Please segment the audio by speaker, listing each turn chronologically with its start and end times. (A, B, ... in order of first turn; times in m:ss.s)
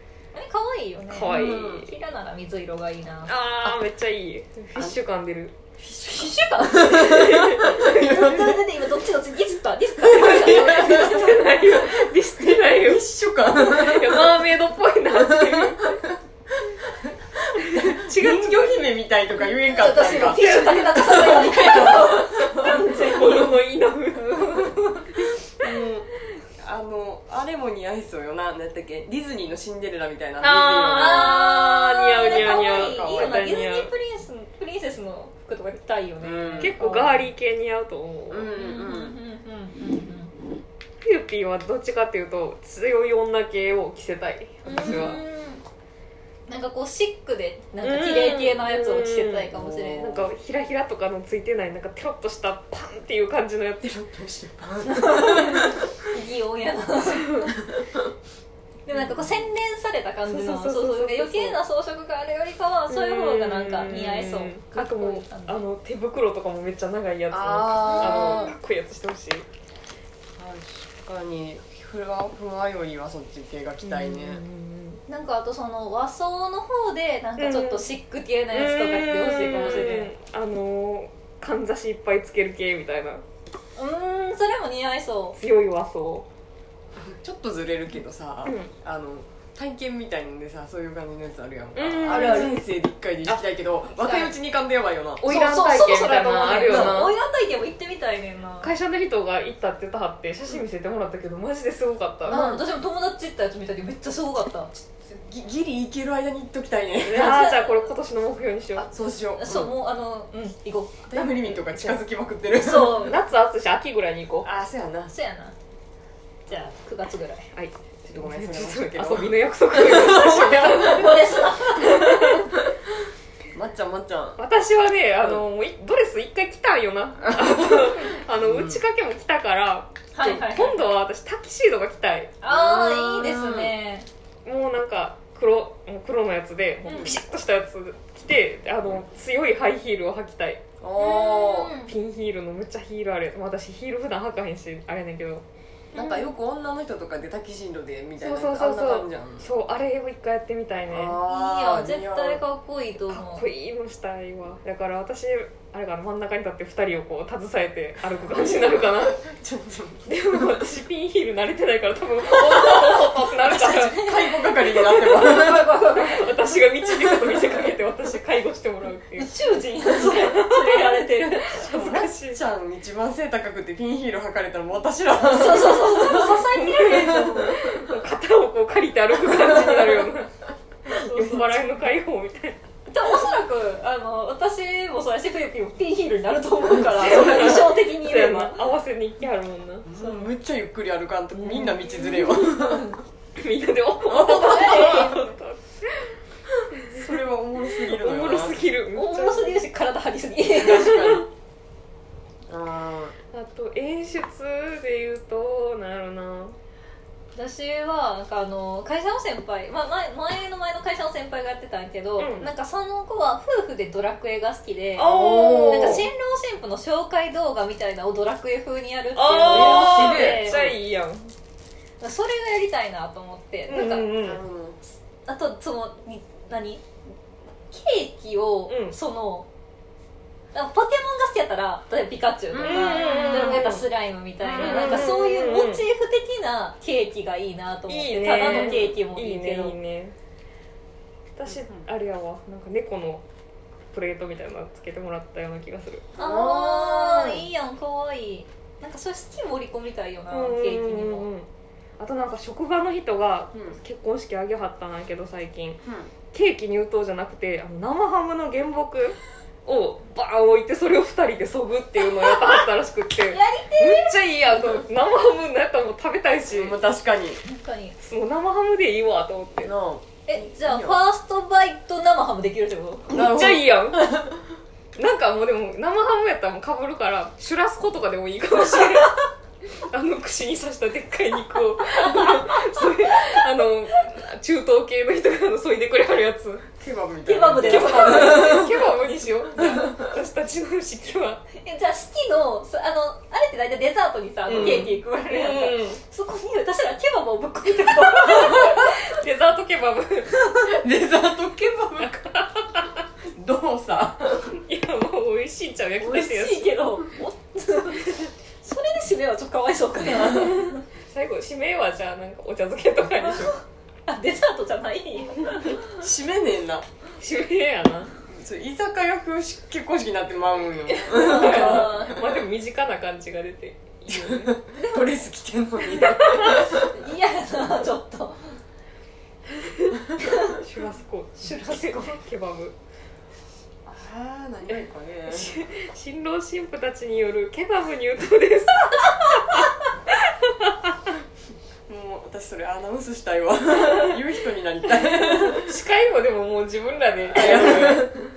0:00.3-0:03.3 A
0:01.1-0:01.9 B
0:01.3-0:01.9 C
0:03.3-0:05.6 B
0:05.8-0:08.7 C
0:06.0-0:11.4 A
0:06.9-0:08.4 B
0:10.0-0:14.5 C
0:10.1-0:16.0 B
0:15.1-0:23.5 C
0:17.6-0:19.0 B
0:19.6-0:23.5 A
0:20.0-0:22.0 B
0:22.6-0:25.2 B
0:24.2-0:25.1 A
0:25.6-0:31.4 C
0:30.4-0:33.9 B
0:30.9-0:37.3 A
0:32.2-0:33.4 C
0:36.2-0:36.8 C
0:36.6-0:38.5 B
0:38.3-0:39.2 C
0:38.6-0:40.3 A
0:41.0-0:45.2 B
0:44.6-0:45.6 A
0:46.5-0:50.1 A
0:47.8-0:53.9 B
0:49.5-0:50.3 C
0:53.8-0:56.1 C
0:54.8-0:57.5 A
0:57.6-0:58.1 C
0:58.9-1:05.6 A
0:59.1-0:59.4 C
1:00.3-1:01.6 B
1:02.9-1:09.5 B
1:07.3-1:08.5 C
1:07.9-1:08.5 A
1:10.4-1:14.4 C
1:13.8-1:15.0 B
1:15.1-1:20.1 A
1:17.4-1:17.9 B
1:18.5-1:23.2 B
1:23.8-1:25.4 A
1:25.4-1:26.3 B
1:27.0-1:35.2 C
1:28.4-1:28.7 B
1:31.8-1:32.6 B
1:32.1-1:32.5 A
1:33.9-1:34.3 A
1:35.2-1:37.1 B
1:35.2-1:38.7 A
1:38.6-1:42.6 B
1:42.3-1:44.7 A
1:44.8-1:47.5 C
1:47.1-1:48.9 B
1:47.1-1:47.8 A
1:48.8-1:49.8 C
1:49.4-1:51.2 A
1:51.1-1:53.2 C
1:51.5-1:52.0 B
1:52.6-1:53.2 A
1:52.8-1:54.5 B
1:54.4-1:55.2 C
1:55.1-1:55.6 A
1:56.5-1:57.5 A
1:57.6-2:02.5 B
1:58.0-2:01.3 C
2:00.1-2:02.4 A
2:03.5-2:04.4 C
2:04.4-2:12.3 B
2:07.2-2:08.8 C
2:10.1-2:10.8 A
2:12.4-2:14.1 A
2:12.5-2:13.7 C
2:14.4-2:20.6 B
2:16.9-2:17.2 C
2:20.8-2:21.8 C
2:21.0-2:21.9 A
2:21.8-2:25.4 B
2:25.9-2:26.3 A
2:25.9-2:29.5 C
2:28.2-2:31.2 B
2:30.9-2:32.4 C
2:31.3-2:33.4 A
2:33.1-2:39.2 B
2:38.2-2:40.5 C
2:40.1-2:44.0 B
2:43.4-2:45.7 C
2:43.6-2:47.2 A
2:46.0-2:49.3 B
2:49.2-2:51.7 A
2:49.9-2:52.4 B
2:51.7-2:57.9 C
2:55.1-2:57.6 A
2:56.2-3:00.3 B
2:59.3-3:00.0 C
3:00.9-3:01.6 A
3:00.9-3:02.6 B
3:02.9-3:08.6 A
3:07.0-3:09.9 B
3:09.8-3:13.0 C
3:10.0-3:10.3 A
3:11.4-3:11.9 A
3:12.4-3:13.0 A
3:13.4-3:16.2 B
3:14.1-3:15.1 C
3:14.1-3:15.4 A
3:16.7-3:17.1 B
3:16.9-3:18.6 C
3:17.7-3:19.6 B
3:18.9-3:21.2 A
3:20.5-3:21.3 C
3:22.5-3:23.2 C
3:23.3-3:26.6 B
3:27.4-3:40.7 A
3:32.2-3:32.5 B
3:35.0-3:36.1 B
3:35.1-3:36.0 C
3:39.2-3:41.3 B
3:39.5-3:40.7 C
3:42.0-3:44.1 A
3:43.7-3:44.4 B
3:44.1-3:44.8 C
3:45.2-3:46.9 A
3:47.7-3:49.5 A
3:48.7-3:49.0 B
3:50.5-3:59.7 A
3:52.5-3:53.5 C
3:52.6-3:53.9 B
3:54.4-3:55.8 B
3:54.6-3:55.0 C
3:57.9-4:00.2 B
4:01.4-4:03.2 B
4:03.9-4:06.2 B
4:06.2-4:11.3 A
4:06.2-4:06.9 C
4:10.3-4:11.5 B
4:12.0-4:26.8 B
4:15.8-4:16.1 C
4:23.3-4:24.2 A
4:26.5-4:27.4 C
4:27.4-4:28.0 A
4:28.0-4:29.7 B
4:29.6-4:31.0 C
4:30.3-4:33.1 A
4:33.1-4:34.4 C
4:33.1-4:34.3 B
4:35.0-4:46.7 B
4:42.0-4:43.4 A
4:46.8-4:48.9 C
4:47.2-4:48.7 A
4:47.6-4:51.4 B
4:49.6-4:50.1 C
4:51.5-4:58.9 A
4:54.5-4:56.0 B
4:54.5-4:55.0 C
4:58.2-5:00.7 B
5:00.6-5:02.2 C
5:02.0-5:02.9 B
5:03.2-5:04.6 C
5:04.5-5:06.8 B
5:06.0-5:10.8 A
5:10.6-5:13.6 B
5:14.1-5:15.9 A
5:15.8-5:16.9 C
5:17.2-5:18.1 B
5:18.3-5:22.4 C
5:20.9-5:24.6 B
5:21.1-5:22.1 A
5:24.1-5:27.0 C
5:24.8-5:25.1 A
5:25.9-5:26.7 B
5:26.7-5:28.6 A
5:29.6-5:32.8 B
5:30.2-5:30.6 A
5:31.4-5:32.2 A
5:33.8-5:35.6 C
5:35.3-5:40.9 B
5:41.9-5:45.8 C
5:45.3-5:48.2 B
5:47.3-5:48.3 C